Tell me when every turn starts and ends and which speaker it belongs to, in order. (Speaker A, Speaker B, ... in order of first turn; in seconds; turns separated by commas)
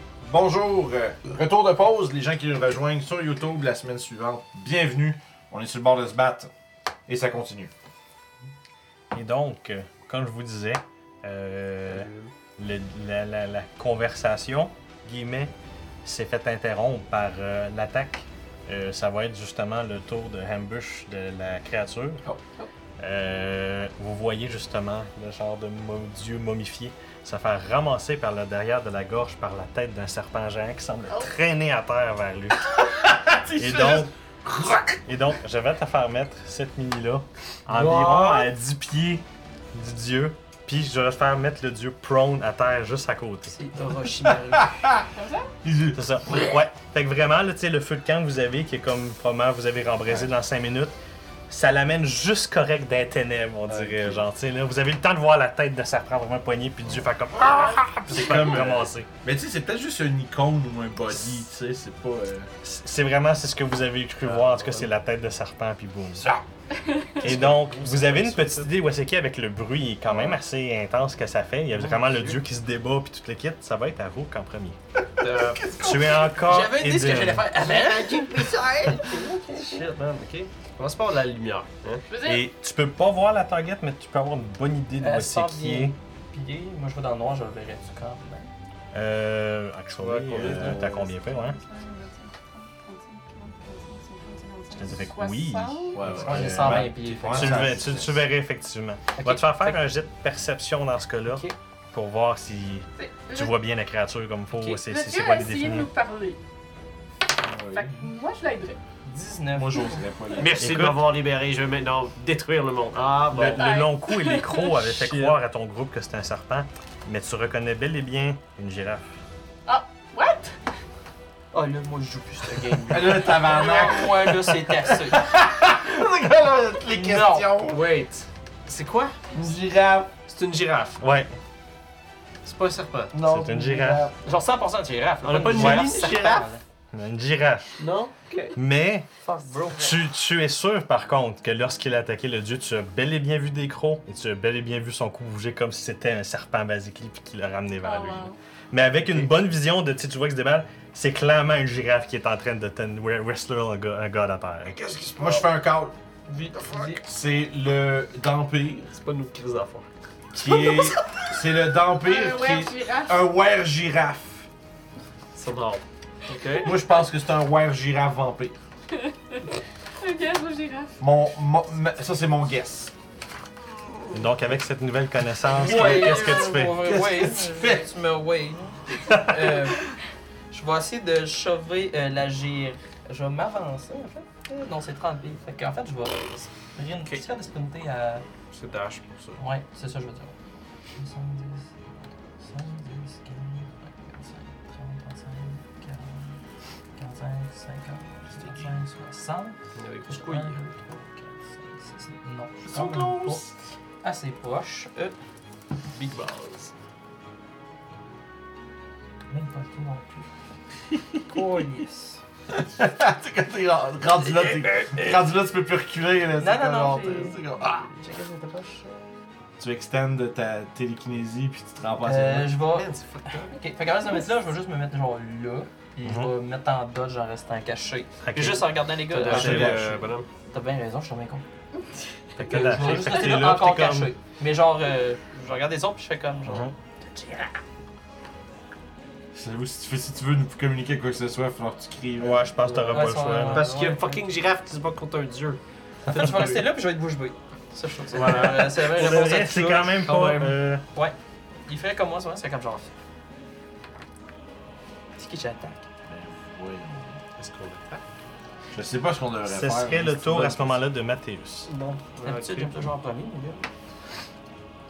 Speaker A: 0.2-6.5, Speaker A: 7.1-7.7, Speaker B: 9.1-15.5, Speaker C: 11.9-12.3, Speaker B: 16.0-22.2, Speaker B: 23.0-32.7, Speaker A: 32.7-35.0, Speaker B: 33.5-34.1, Speaker B: 35.0-43.5, Speaker C: 37.7-38.5, Speaker D: 43.5-44.7, Speaker A: 44.3-45.0, Speaker E: 45.1-45.5, Speaker A: 45.6-46.6, Speaker B: 45.9-50.9, Speaker A: 50.0-50.3, Speaker B: 51.5-59.1, Speaker A: 53.7-54.2, Speaker A: 58.1-62.5, Speaker B: 61.1-61.5, Speaker B: 62.6-66.3, Speaker C: 64.2-64.9, Speaker E: 66.7-67.3, Speaker C: 67.2-68.7, Speaker B: 67.2-74.8, Speaker A: 67.2-67.5, Speaker C: 71.7-72.4, Speaker C: 75.2-76.2, Speaker B: 75.8-77.5, Speaker D: 76.4-79.9, Speaker C: 77.5-82.0, Speaker E: 82.1-82.5, Speaker B: 82.2-85.9, Speaker D: 85.0-88.5, Speaker B: 88.9-91.6, Speaker C: 89.9-91.1, Speaker E: 90.9-96.1, Speaker B: 94.7-105.9, Speaker A: 95.9-98.2, Speaker D: 96.2-97.8, Speaker D: 99.2-99.8, Speaker D: 101.2-101.5, Speaker E: 103.0-103.5, Speaker E: 104.5-106.4, Speaker A: 107.4-108.1, Speaker E: 107.7-108.8, Speaker D: 109.0-110.0, Speaker A: 109.5-110.7, Speaker E: 109.8-110.4, Speaker C: 110.3-113.7, Speaker B: 110.6-111.0, Speaker B: 113.3-119.2, Speaker E: 113.3-114.7, Speaker C: 114.8-115.4, Speaker E: 119.7-120.6, Speaker D: 121.5-125.3, Speaker A: 122.9-127.8, Speaker C: 126.0-131.0, Speaker D: 126.9-127.6, Speaker A: 129.4-130.1, Speaker B: 131.0-131.3, Speaker C: 132.4-134.1, Speaker B: 133.1-134.1, Speaker D: 134.2-136.6, Speaker C: 135.2-136.5, Speaker B: 135.5-136.1, Speaker B: 136.9-137.8, Speaker C: 137.8-138.6, Speaker B: 138.6-139.1, Speaker D: 139.2-140.0, Speaker B: 139.7-154.8, Speaker E: 147.8-148.4, Speaker C: 149.1-149.3, Speaker C: 154.7-155.5, Speaker A: 155.1-155.9, Speaker C: 156.3-157.0, Speaker A: 156.7-158.9, Speaker C: 158.9-159.9, Speaker A: 160.3-164.5, Speaker E: 160.4-161.3, Speaker E: 162.0-163.2, Speaker C: 165.3-166.8, Speaker E: 166.3-166.7, Speaker A: 166.6-168.6, Speaker E: 168.9-169.4, Speaker E: 170.0-171.0, Speaker A: 171.0-172.9, Speaker B: 174.1-176.8, Speaker D: 175.5-180.0, Speaker C: 175.6-176.5, Speaker A: 175.6-177.9, Speaker B: 179.1-179.6, Speaker D: 180.5-188.2, Speaker C: 187.0-187.2, Speaker C: 188.5-189.4, Speaker D: 189.3-190.3, Speaker D: 190.9-191.7, Speaker D: 192.4-196.4, Speaker D: 197.0-203.4, Speaker A: 198.3-199.1, Speaker C: 199.7-200.6, Speaker A: 202.7-203.6, Speaker D: 204.0-205.1, Speaker C: 206.0-206.7, Speaker D: 209.3-210.3, Speaker D: 211.3-212.2, Speaker A: 212.5-217.8, Speaker D: 214.4-214.9, Speaker D: 216.4-217.4, Speaker C: 217.7-218.2, Speaker D: 218.0-218.9, Speaker A: 219.6-222.6, Speaker D: 222.0-229.9, Speaker C: 222.6-223.6, Speaker B: 226.0-226.3, Speaker B: 228.2-229.9, Speaker C: 229.1-230.3, Speaker A: 229.2-230.1, Speaker D: 230.5-231.4, Speaker D: 232.3-237.5, Speaker C: 232.4-233.3, Speaker B: 232.4-234.1, Speaker B: 236.5-236.7, Speaker A: 239.3-242.5, Speaker B: 242.2-243.7, Speaker C: 242.7-245.6, Speaker D: 242.9-244.2, Speaker D: 246.1-249.7, Speaker B: 246.1-246.6, Speaker C: 246.1-246.6, Speaker C: 248.1-250.6, Speaker B: 248.9-250.8, Speaker D: 251.7-252.9, Speaker D: 255.2-255.9, Speaker A: 256.1-257.2, Speaker C: 257.4-258.0, Speaker A: 258.7-260.8, Speaker B: 259.4-261.7, Speaker C: 261.7-262.7, Speaker D: 262.2-263.6